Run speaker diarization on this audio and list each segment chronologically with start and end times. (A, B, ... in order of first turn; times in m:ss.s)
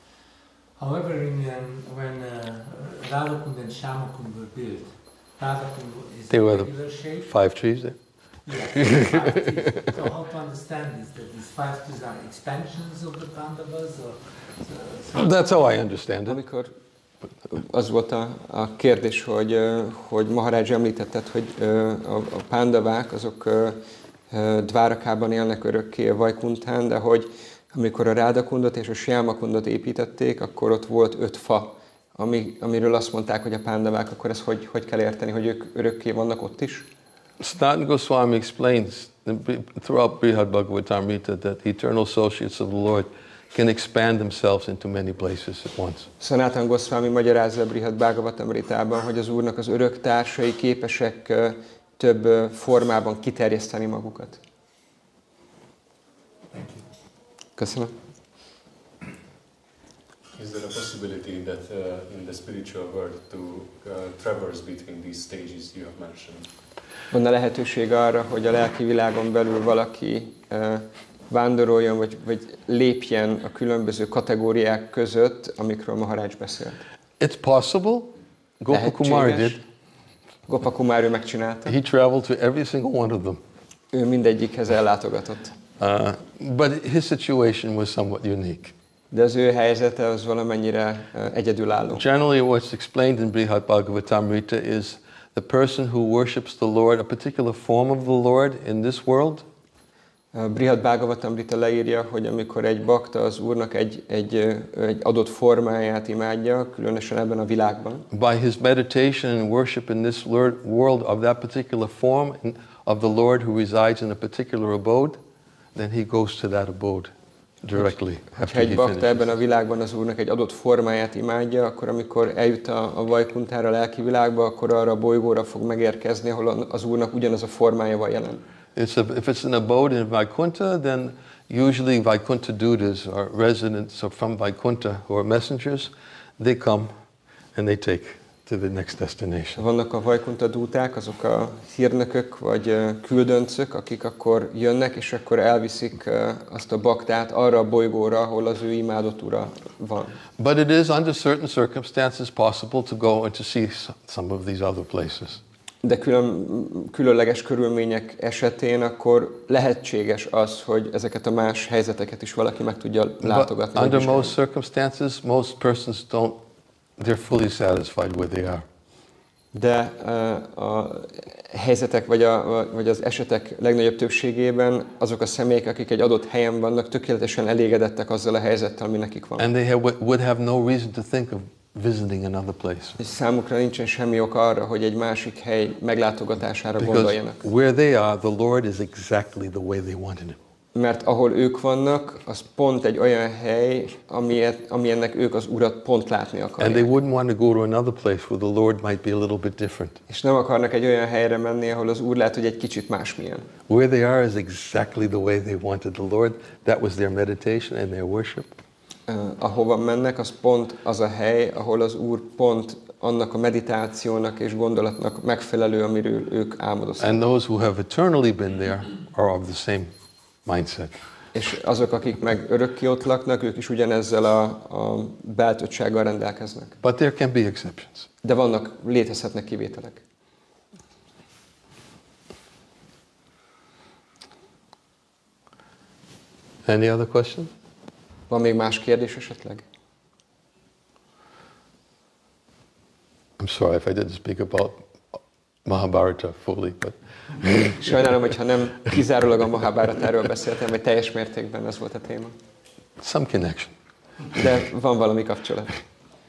0:00.8-0:07.3 A
0:06.3-0:06.7 B
0:07.2-0:08.0 B
0:08.5-0:15.4 A
0:08.8-0:09.9 B
0:15.1-0:16.4 B
0:16.3-0:16.7 C
0:17.5-0:23.8 C
0:24.3-0:36.9 C
0:37.4-0:46.1 B
0:46.2-0:54.4 C
0:57.6-0:57.9 C
1:00.4-1:06.5 D
1:07.1-1:16.8 C
1:17.2-1:19.6 B
1:18.7-1:19.6 C
1:20.5-1:21.7 C
1:21.7-1:23.4 B
1:23.9-1:25.6 C
1:25.8-1:28.7 B
1:29.1-1:32.0 C
1:31.9-1:39.4 B
1:40.3-1:48.1 C
1:48.1-1:55.2 B
1:55.8-1:57.1 B
1:57.6-1:59.3 B
1:57.8-2:08.4 C
2:08.8-2:16.9 B
2:17.6-2:19.6 B
2:19.6-2:30.2 C
2:30.4-2:35.4 B
2:35.8-2:44.3 C
2:43.2-2:46.4 B
2:47.0-2:48.6 B
2:49.5-2:59.5 C
2:59.4-3:03.0 B
3:03.0-3:07.4 C
3:06.8-3:10.4 B
3:10.8-3:16.9 C
3:16.6-3:20.0 B
3:20.1-3:23.5 C
3:23.7-3:28.6 B
3:29.1-3:37.1 C
3:37.0-3:39.9 B
3:40.5-3:41.0 B
3:41.3-3:46.7 C
3:46.8-3:48.1 B
3:48.2-3:50.0 C
3:56.6-3:57.5 B
3:58.3-3:59.6 C
4:03.4-4:07.8 B
4:07.8-4:12.3 C
4:13.0-4:13.7 B
4:14.3-4:15.7 C